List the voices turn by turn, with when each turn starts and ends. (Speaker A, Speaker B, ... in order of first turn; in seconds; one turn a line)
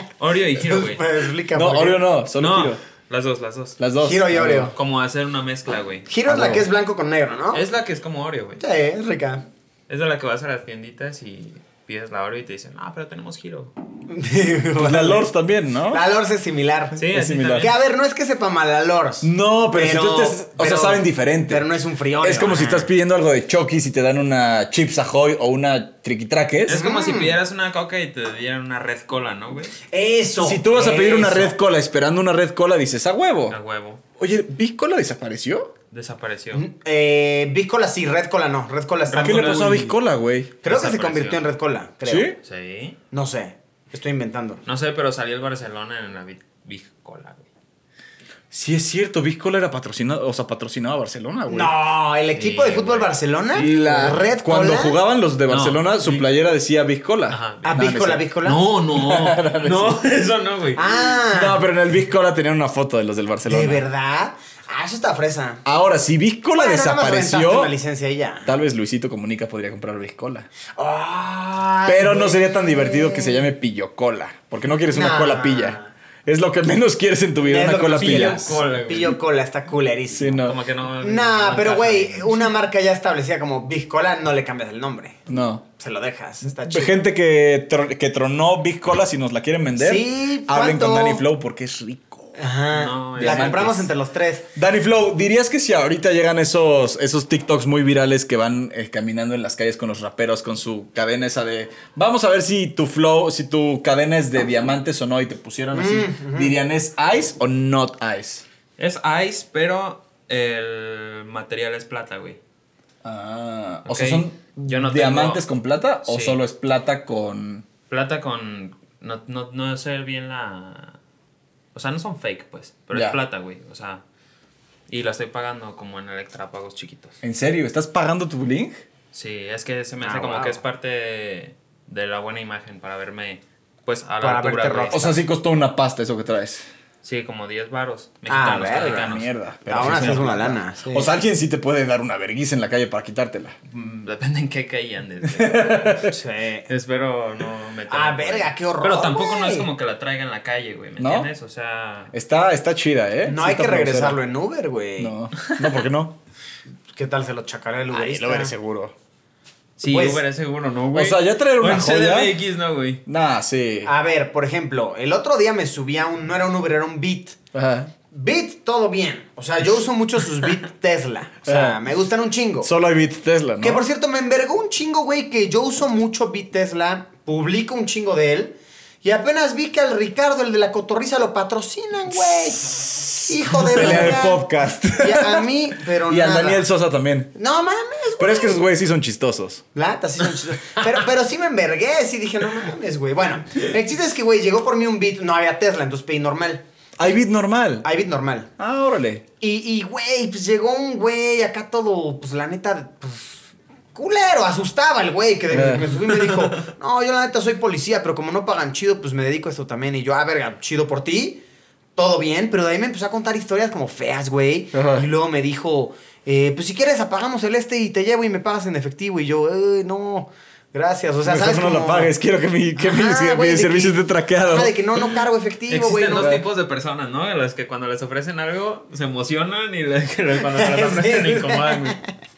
Speaker A: 0.2-1.0
Speaker B: 0.6-2.1
Speaker C: 1.5-2.8
Speaker A: 2.4-3.8
Speaker C: 3.8-4.7
Speaker B: 4.0-4.7
Speaker A: 4.7-6.1
Speaker B: 6.1-7.6
Speaker C: 6.2-6.6
Speaker A: 7.5-8.6
Speaker B: 8.6-9.4
Speaker A: 9.9-13.7
Speaker B: 14.1-15.3
Speaker C: 14.8-16.0
Speaker B: 15.9-17.0
Speaker A: 16.9-17.7
Speaker C: 17.1-17.7
Speaker B: 17.6-22.9
Speaker C: 19.2-21.6
Speaker C: 22.2-26.8
Speaker A: 26.7-29.8
Speaker B: 26.7-27.4
Speaker B: 29.9-31.6
Speaker C: 30.4-33.5
Speaker A: 33.5-34.0
Speaker C: 34.2-35.7
Speaker A: 35.9-36.6
Speaker B: 36.5-39.9
Speaker A: 39.1-39.9
Speaker C: 39.2-40.6
Speaker B: 40.6-42.3
Speaker A: 40.6-41.4
Speaker C: 42.0-42.4
Speaker A: 42.4-43.0
Speaker B: 43.1-44.6
Speaker A: 44.6-47.4
Speaker C: 48.5-51.7
Speaker B: 51.5-55.0
Speaker A: 52.3-53.7
Speaker C: 53.6-58.2
Speaker A: 55.5-56.3
Speaker A: 57.3-57.8
Speaker B: 57.6-58.7
Speaker A: 58.4-60.9
Speaker C: 58.9-60.0
Speaker B: 60.7-61.6
Speaker C: 61.3-63.8
Speaker B: 63.5-65.6
Speaker C: 65.6-67.7
Speaker B: 66.5-68.5
Speaker C: 68.4-70.5
Speaker B: 70.7-73.5
Speaker C: 71.8-78.6
Speaker B: 74.9-75.9
Speaker B: 77.4-85.2
Speaker A: 77.8-79.2
Speaker C: 80.2-80.5
Speaker A: 80.4-82.4
Speaker C: 85.3-85.6
Speaker B: 85.8-87.0
Speaker C: 86.5-92.4
Speaker B: 89.8-91.2
Speaker B: 92.4-94.5
Speaker A: 92.7-93.8
Speaker C: 93.2-93.8
Speaker C: 94.5-108.4
Speaker B: 105.7-106.5
Speaker A: 108.8-112.4
Speaker C: 113.0-117.7
Speaker A: 113.8-115.4
Speaker A: 116.0-116.4
Speaker A: 117.9-121.0
Speaker A: 121.7-124.0
Speaker A: 124.9-127.2
Speaker C: 127.2-128.8
Speaker A: 129.1-135.2
Speaker B: 130.0-130.6
Speaker B: 134.2-135.2
Speaker C: 134.9-136.6
Speaker A: 137.0-140.2
Speaker B: 138.3-141.1
Speaker C: 138.8-143.5
Speaker A: 143.7-146.0
Speaker C: 145.3-146.1
Speaker B: 146.1-146.7
Speaker A: 146.7-152.1
Speaker B: 147.9-149.7
Speaker C: 151.0-151.3
Speaker C: 152.1-154.2
Speaker B: 153.2-155.1
Speaker C: 155.0-156.1
Speaker A: 155.5-155.7
Speaker B: 156.9-158.5
Speaker C: 157.9-158.9
Speaker A: 159.8-163.0
Speaker B: 159.9-160.2
Speaker C: 160.9-162.3
Speaker C: 163.1-163.9
Speaker B: 163.8-167.4
Speaker C: 167.5-167.9
Speaker B: 168.1-172.7
Speaker C: 171.4-171.8
Speaker C: 172.6-173.8
Speaker B: 173.6-186.7
Speaker C: 183.1-187.3
Speaker B: 187.3-188.6
Speaker C: 188.2-189.6
Speaker B: 189.7-196.6
Speaker C: 197.0-197.9
Speaker B: 197.8-198.5
Speaker C: 198.6-199.2
Speaker B: 199.4-211.4
Speaker C: 205.5-205.9
Speaker B: 211.9-222.1
Speaker C: 214.7-215.1
Speaker C: 221.2-224.7
Speaker B: 222.8-226.4
Speaker A: 225.7-232.0
Speaker C: 226.2-226.4
Speaker B: 230.5-232.0